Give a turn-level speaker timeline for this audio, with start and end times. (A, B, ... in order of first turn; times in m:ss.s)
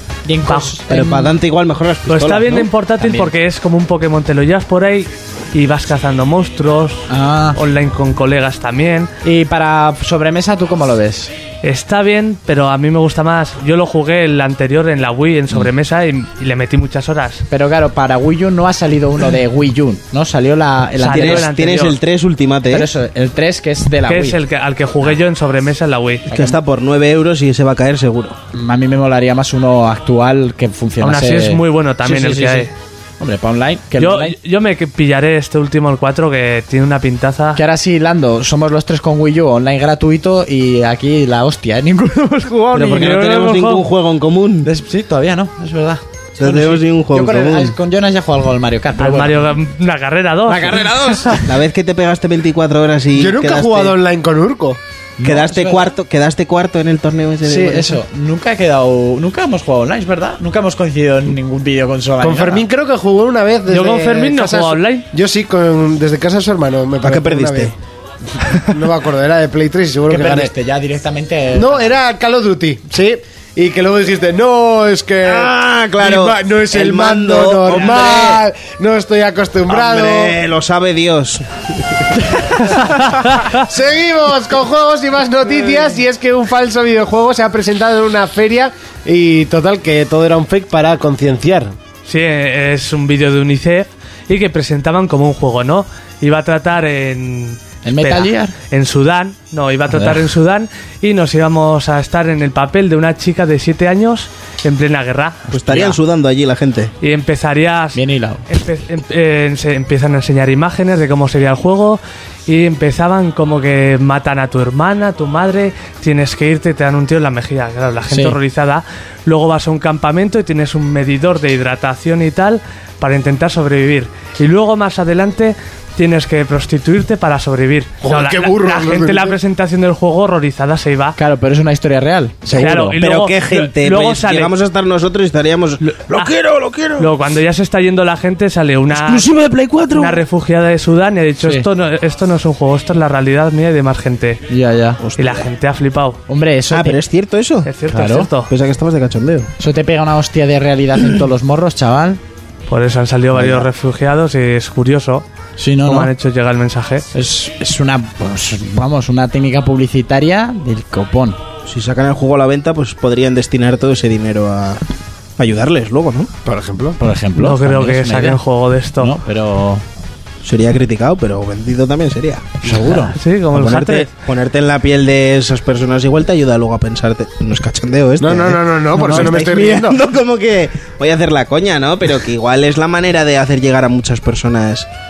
0:00.2-0:01.3 A
0:00.5-0:00.8 B
0:00.9-0:02.7 C
0:02.1-0:09.1 B
0:03.0-0:03.3 A
0:07.1-0:07.6 A
0:09.2-0:11.3 A
0:11.6-0:17.4 B
0:17.5-0:21.5 A
0:21.0-0:22.0 B
0:21.1-0:22.9 C
0:22.7-0:24.4 A
0:24.0-0:26.2 B
0:26.3-0:28.4 C
0:26.3-0:26.6 A
0:28.5-0:34.3 A
0:31.0-0:32.7 B
0:34.0-0:37.6 B
0:37.5-0:43.2 A
0:42.7-0:44.7 C
0:42.8-0:43.8 B
0:44.6-0:49.5 A
0:46.4-0:47.8 C
0:49.0-0:50.9 B
0:50.5-0:51.5 A
0:51.5-0:54.0 C
0:53.1-0:54.8 D
0:55.2-0:55.9 A
0:55.2-0:58.0 C
0:57.4-1:02.6 A
1:02.2-1:07.7 D
1:03.7-1:05.0 B
1:07.0-1:07.7 C
1:08.6-1:10.5 D
1:10.1-1:11.8 A
1:11.5-1:20.4 D
1:15.2-1:18.4 C
1:19.7-1:21.4 C
1:23.6-1:31.7 D
1:32.0-1:45.4 B
1:37.8-1:38.5 A
1:39.9-1:40.3 A
1:45.5-1:46.9 C
1:45.5-1:46.0 A
1:47.0-2:11.2 B
1:47.9-1:48.4 A
1:58.1-1:58.4 A
2:08.0-2:09.4 D
2:11.2-2:13.0 A
2:12.5-2:17.1 C
2:12.6-2:14.5 B
2:15.8-2:16.3 B
2:17.0-2:19.3 B
2:18.9-2:20.2 C
2:19.9-2:24.4 B
2:24.5-2:25.0 A
2:25.0-2:25.5 C
2:25.2-2:26.2 B
2:26.3-2:27.0 A
2:26.7-2:27.7 C
2:27.6-2:28.5 B
2:27.9-2:28.3 A
2:28.5-2:29.5 C
2:29.6-2:32.2 A
2:32.7-2:35.2 B
2:33.3-2:33.7 C
2:35.6-2:36.1 A
2:35.8-2:37.0 B
2:37.1-2:41.4 A
2:41.7-2:44.8 C
2:45.4-2:46.3 C
2:46.4-2:47.0 D
2:47.0-2:48.4 A
2:47.4-2:49.1 B
2:49.0-2:49.8 A
2:50.4-2:52.6 C
2:52.6-2:53.1 A
2:53.1-2:54.1 B
2:53.5-3:04.9 C
2:58.2-3:00.0 D
2:59.0-2:59.4 A